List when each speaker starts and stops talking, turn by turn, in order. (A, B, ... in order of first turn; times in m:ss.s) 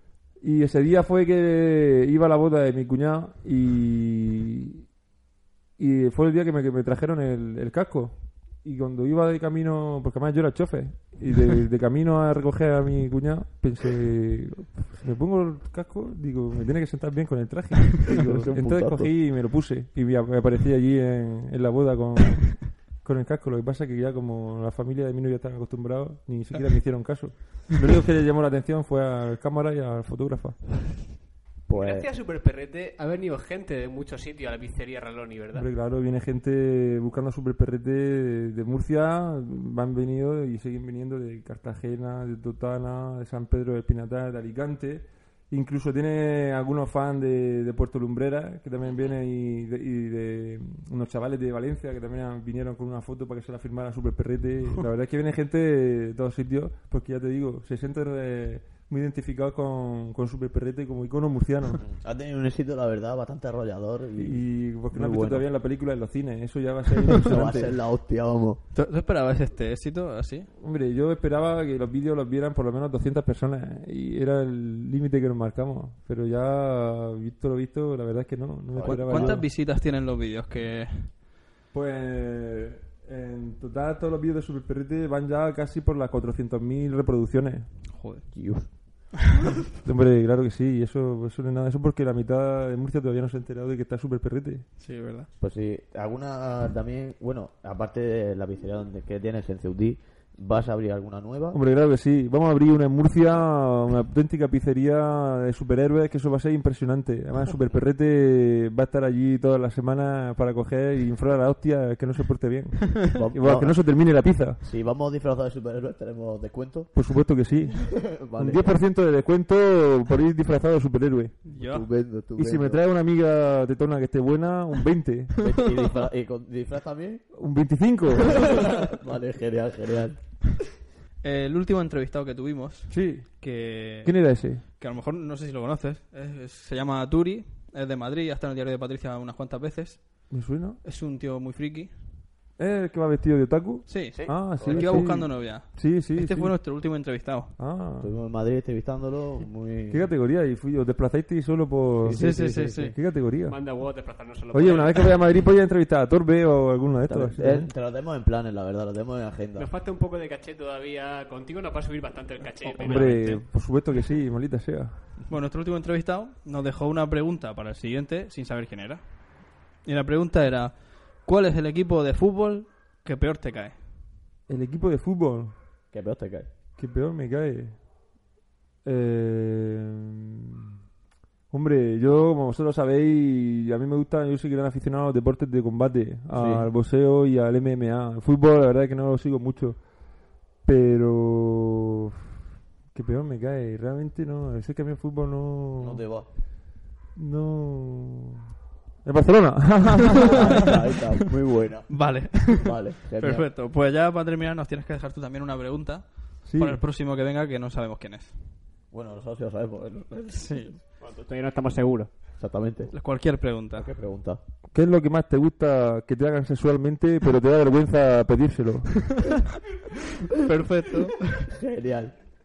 0:00.4-0:04.8 A
0:05.8-0:30.8 A
0:18.0-0:19.1 B
0:31.7-0:32.1 B
0:31.7-0:35.7 C
0:35.5-1:01.8 A
1:01.8-1:05.5 B
1:04.2-1:07.8 A
1:07.1-1:08.6 B
1:08.8-1:10.5 D
1:10.6-1:19.5 A
1:18.7-1:19.4 B
1:18.8-1:21.2 D
1:21.7-1:27.8 A
1:27.9-1:28.3 D
1:28.3-1:28.7 B
1:29.8-1:34.7 A
1:34.8-1:35.3 D
1:35.4-1:41.6 B
1:41.5-1:54.6 A
1:53.2-1:53.8 B
1:54.6-1:56.9 B
1:56.9-2:01.4 A
1:57.7-1:58.8 B
2:01.5-2:01.9 D
2:01.5-2:02.8 B
2:02.4-2:05.4 A
2:05.4-2:07.2 B
2:07.3-2:08.7 A
2:08.3-2:10.2 B
2:11.2-2:22.0 D
2:12.9-2:14.6 A
2:20.3-2:20.8 A
2:22.6-2:26.6 A
2:23.9-2:27.6 D
2:24.1-2:25.1 B
2:27.6-2:28.1 A
2:28.0-2:30.1 B
2:29.9-2:33.6 A
2:32.0-2:32.9 B
2:32.1-2:33.0 D
2:33.4-2:35.2 C
2:34.5-2:37.7 A
2:37.0-2:39.7 B
2:39.6-2:43.2 C
2:42.6-2:43.4 D
2:42.8-2:45.1 A
2:45.3-2:53.8 D
2:54.5-2:55.6 A
2:55.9-2:56.5 B
2:56.8-2:57.8 A
2:58.8-3:00.7 A
3:01.5-3:09.9 A
3:06.3-3:06.7 B
3:10.6-3:12.1 A
3:12.9-3:16.0 A
3:15.8-3:16.3 B
3:17.2-3:18.4 A
3:19.0-3:20.8 A
3:20.2-3:23.5 B
3:21.9-3:28.4 D
3:26.4-3:26.8 A
3:28.9-3:31.3 B
3:30.3-3:30.8 D
3:31.3-3:32.1 C
3:32.4-3:32.9 B
3:32.9-3:33.9 D
3:33.7-3:34.4 B
3:34.7-3:39.2 A
3:40.3-3:41.5 D
3:41.5-3:42.2 B